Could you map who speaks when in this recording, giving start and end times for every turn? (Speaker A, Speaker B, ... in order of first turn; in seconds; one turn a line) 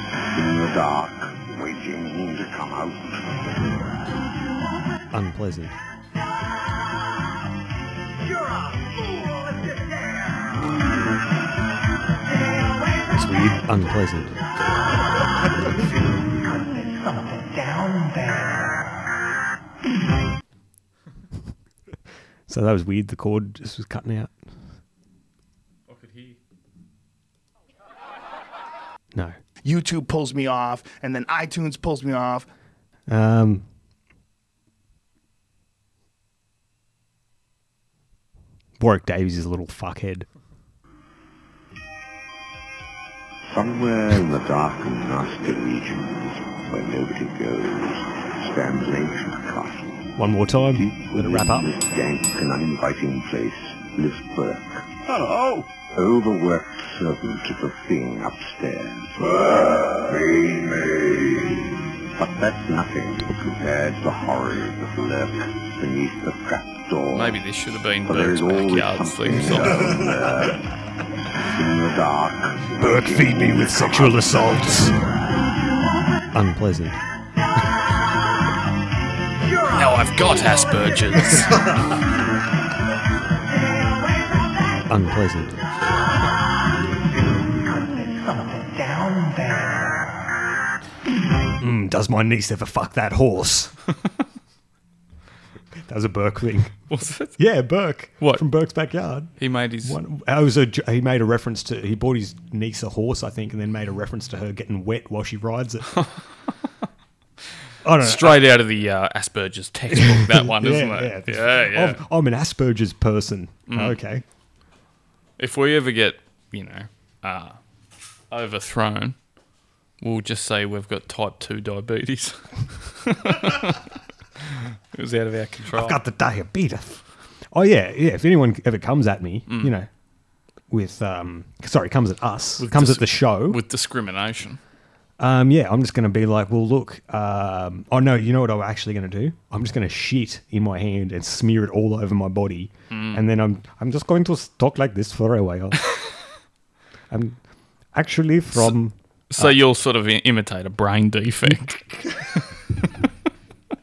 Speaker A: 0.3-3.4
Speaker B: 5.1-5.8
Speaker B: 13.1-14.4
Speaker B: 22.5-24.4
Speaker C: 25.9-26.4
Speaker D: 29.6-32.5
Speaker B: 33.1-33.7
Speaker B: 38.8-40.3
Speaker A: 43.5-50.0
Speaker B: 50.2-51.7
Speaker A: 50.7-54.9
Speaker A: 55.9-61.5
Speaker A: 62.1-67.4
Speaker C: 67.1-69.8
Speaker A: 68.1-70.7
Speaker B: 69.7-70.1
Speaker A: 71.4-74.9
Speaker B: 72.8-75.0
Speaker B: 76.3-77.0
Speaker C: 79.7-81.7
Speaker B: 81.5-81.8
Speaker B: 84.9-85.6
Speaker B: 91.6-93.8
Speaker B: 95.8-96.7
Speaker C: 96.9-97.4
Speaker B: 97.4-106.0
Speaker C: 99.4-100.0
Speaker B: 107.8-108.5
Speaker C: 108.0-112.0
Speaker B: 109.9-114.2
Speaker C: 113.7-114.0
Speaker C: 115.4-117.6
Speaker C: 118.3-119.2
Speaker C: 120.0-123.8
Speaker C: 124.9-126.0
Speaker B: 125.7-129.9
Speaker B: 130.7-133.6
Speaker C: 132.6-134.6
Speaker B: 135.2-145.8
Speaker C: 142.9-143.3
Speaker B: 147.1-147.4
Speaker B: 147.9-149.6
Speaker C: 149.3-152.4
Speaker B: 151.4-151.9